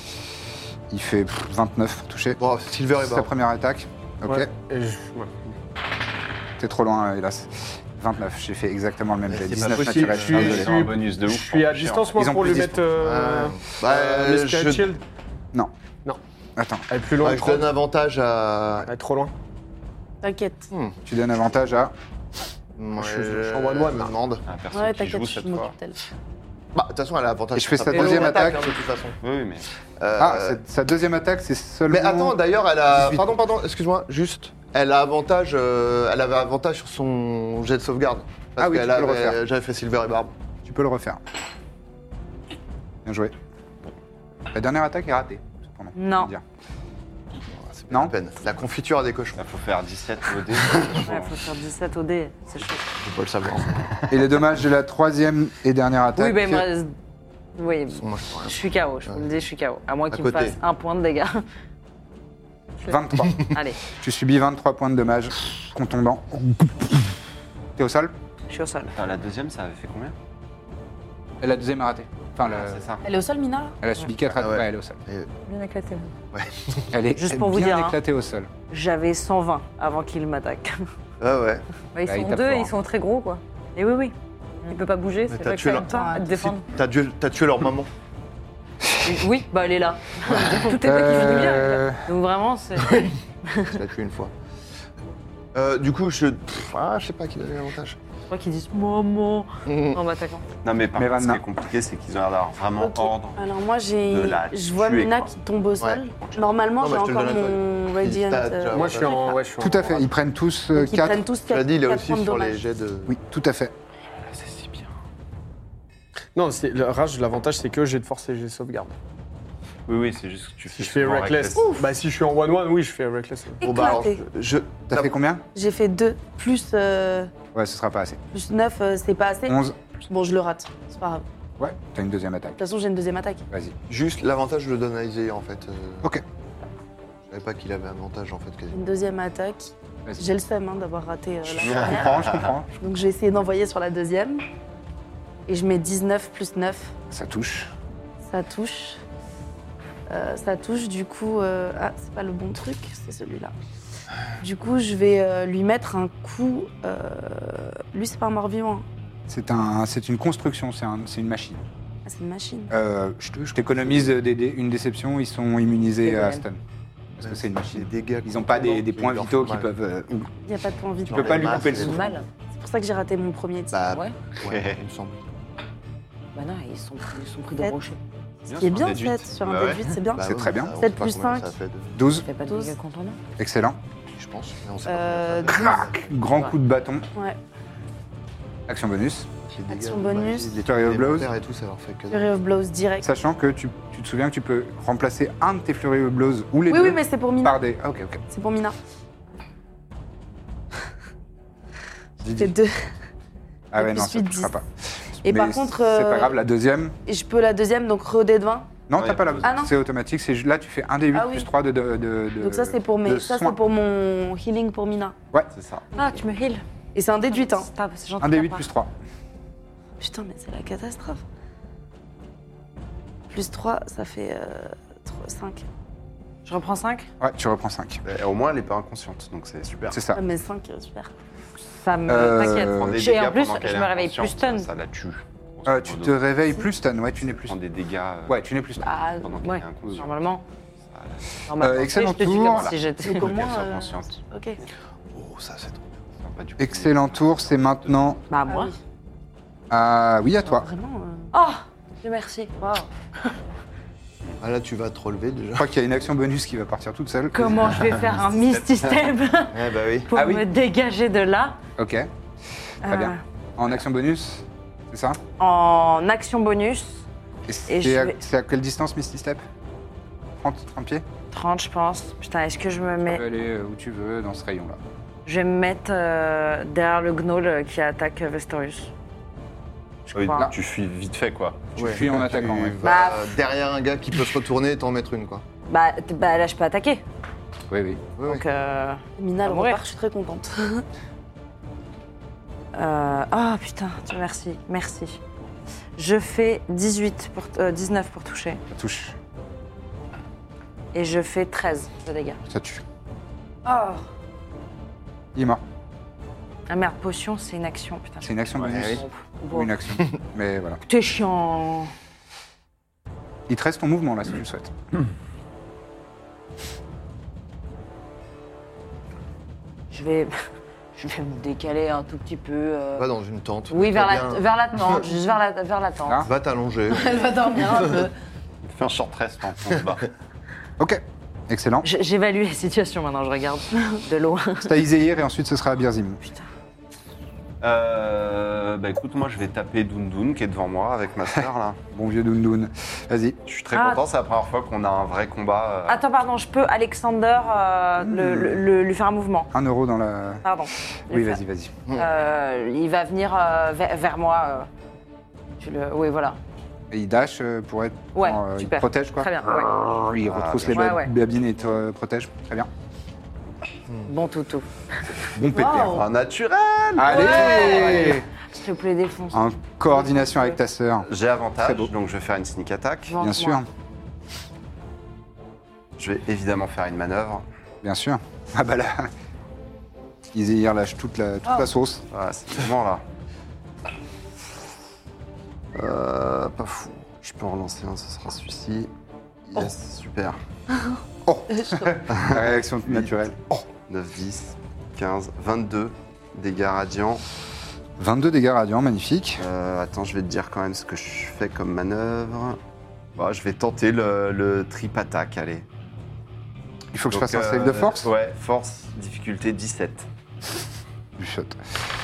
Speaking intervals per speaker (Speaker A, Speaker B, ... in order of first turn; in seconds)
Speaker A: 0.9-2.4, 3.0-4.5, 6.6-10.6, 12.2-12.8, 16.6-16.9, 21.1-21.9, 27.6-28.7, 30.2-32.4, 32.9-33.4, 38.6-39.4, 40.6-41.2, 43.0-43.3, 44.5-46.4, 54.1-56.7, 62.9-67.2, 67.8-68.1, 71.4-72.8, 73.8-75.0, 76.9-78.5, 82.0-82.8, 90.7-92.1, 101.0-101.4, 109.6-111.2, 113.1-113.7, 124.9-125.5, 127.5-128.2, 129.5-129.8, 131.6-132.6, 133.5-133.8, 141.5-142.7, 147.1-147.7, 159.3-161.6, 162.7-166.6, 167.2-170.3, 171.1-172.1, 180.2-180.7, 181.9-182.3, 183.4-183.8, 185.5-187.1, 188.7-189.3, 190.7-191.3, 193.0-198.2, 202.2-202.6, 203.7-207.0, 208.9-213.6, 218.2-218.9, 227.2-228.0, 229.9-230.2, 232.1-233.0, 235.7-237.6, 238.3-239.2, 241.6-242.8, 246.6-248.2, 249.7-250.7, 255.6-257.9, 260.1-260.5, 261.8-262.1, 262.9-265.2, 267.5-269.4, 270.4-271.1, 273.1-274.8, 281.8-282.8, 287.7-288.0, 298.7-299.2, 302.5-302.8, 305.4-305.6, 308.2-310.8, 313.5-314.7, 330.8-331.9, 334.6-336.2, 341.9-343.4, 348.0-348.6, 349.5-350.4, 351.1-351.7, 356.9-362.7, 365.3-366.1, 366.9-368.2, 369.3-371.1, 371.6-371.9, 373.2-373.7, 377.8-379.1, 380.3-382.1, 391.2-393.7, 398.0-399.5, 406.9-408.1, 411.2-411.6
Speaker B: 2.4-3.3, 9.3-10.7, 12.9-14.9, 17.2-18.9, 20.7-21.0, 22.8-24.4, 26.7-29.2, 30.0-30.6, 31.9-40.3, 47.5-49.4, 53.0-53.9, 58.0-59.3, 60.1-60.6, 74.4-75.3, 76.3-76.9, 81.2-81.7, 85.3-85.9, 86.7-87.9, 90.3-90.6, 93.7-94.3, 95.5-98.0, 99.7-100.0, 106.8-109.3, 111.5-113.2, 123.6-125.1, 133.9-136.2, 137.3-138.8, 167.2-169.7, 171.1-172.1, 173.7-175.2, 180.2-182.0, 184.1-186.1, 189.5-192.3, 245.1-246.0, 254.4-255.7, 259.5-260.1, 281.8-285.4, 288.2-288.4, 308.6-309.0, 323.0-325.1, 326.2-327.4, 385.7-387.1
Speaker C: 4.3-5.4, 9.8-15.0, 16.9-17.8, 18.9-19.3, 22.9-24.2, 108.7-110.0, 116.3-119.0, 120.7-123.7
Speaker D: 9.7-12.2, 24.5-25.7, 29.2-29.7, 49.4-51.4, 68.9-70.2, 72.4-73.0, 100.6-103.4, 104.1-105.3, 114.2-114.9, 119.9-121.8, 141.6-142.5, 174.4-174.8, 178.5-179.9, 208.9-209.6, 215.5-215.9, 228.1-230.0, 232.5-236.2, 237.2-238.4, 238.9-240.1, 240.9-241.2, 242.3-244.2, 246.2-248.2, 258.5-259.1, 280.1-281.7, 328.6-330.1, 337.6-341.8, 343.5-346.0, 360.2-361.0, 365.9-368.2, 371.0-373.2, 376.0-377.4, 382.1-383.0, 387.2-388.9, 389.5-390.4, 392.1-392.4, 393.9-397.2, 399.4-402.6, 403.2-405.7, 407.1-410.1
Speaker E: 20.2-20.7, 24.7-26.0, 73.0-73.8, 85.9-86.5, 102.8-109.4, 110.7-112.6, 123.6-124.2, 125.5-127.3, 128.3-131.2, 132.6-133.4, 138.7-144.4, 145.5-146.9, 148.2-149.0, 150.1-153.5, 154.4-158.8, 162.1-162.7, 170.4-171.8, 172.5-173.9, 178.5-181.5, 182.5-182.8, 184.8-185.9, 189.7-190.6, 192.1-193.1, 196.7-197.6, 198.3-198.8, 202.4-202.9, 203.8-204.5, 205.2-206.4, 207.1-208.7, 209.4-209.7, 211.1-211.5, 212.4-215.2, 216.9-217.7, 220.0-221.2, 223.3-225.6, 230.1-231.1, 243.0-244.6, 248.5-248.8, 250.4-251.3, 252.6-252.9, 289.2-290.8, 326.9-328.1, 365.5-366.1, 391.6-391.9
Speaker F: 46.0-46.3, 51.0-52.8, 56.1-56.9, 57.6-61.4, 62.9-63.8, 68.5-68.9, 77.2-78.0, 78.7-80.8, 89.0-93.8, 98.3-100.4, 166.0-166.4, 171.7-172.3, 176.3-178.0, 182.1-183.2, 215.9-216.6, 217.3-218.7, 226.4-227.1, 231.8-234.7, 238.8-240.4, 241.5-243.3, 248.3-248.7, 251.3-252.5, 257.3-261.6, 262.9-263.2, 265.4-267.1, 267.7-268.2, 271.3-273.2, 275.3-278.9, 280.1-280.5, 282.8-283.3, 285.7-287.0, 288.2-289.8, 292.8-295.2, 296.0-298.6, 300.9-302.4, 303.6-304.0, 306.7-309.7, 310.9-311.9, 319.9-320.3, 320.9-323.1, 323.7-326.3, 331.8-334.7, 343.7-344.0, 345.9-349.5, 350.4-351.4, 351.9-354.7, 355.6-356.4, 358.1-359.7, 360.7-361.1, 364.1-364.7, 367.0-370.6, 373.1-373.6
Speaker G: 75.5-76.1, 82.0-84.1, 84.7-86.7, 91.1-91.6, 216.0-216.6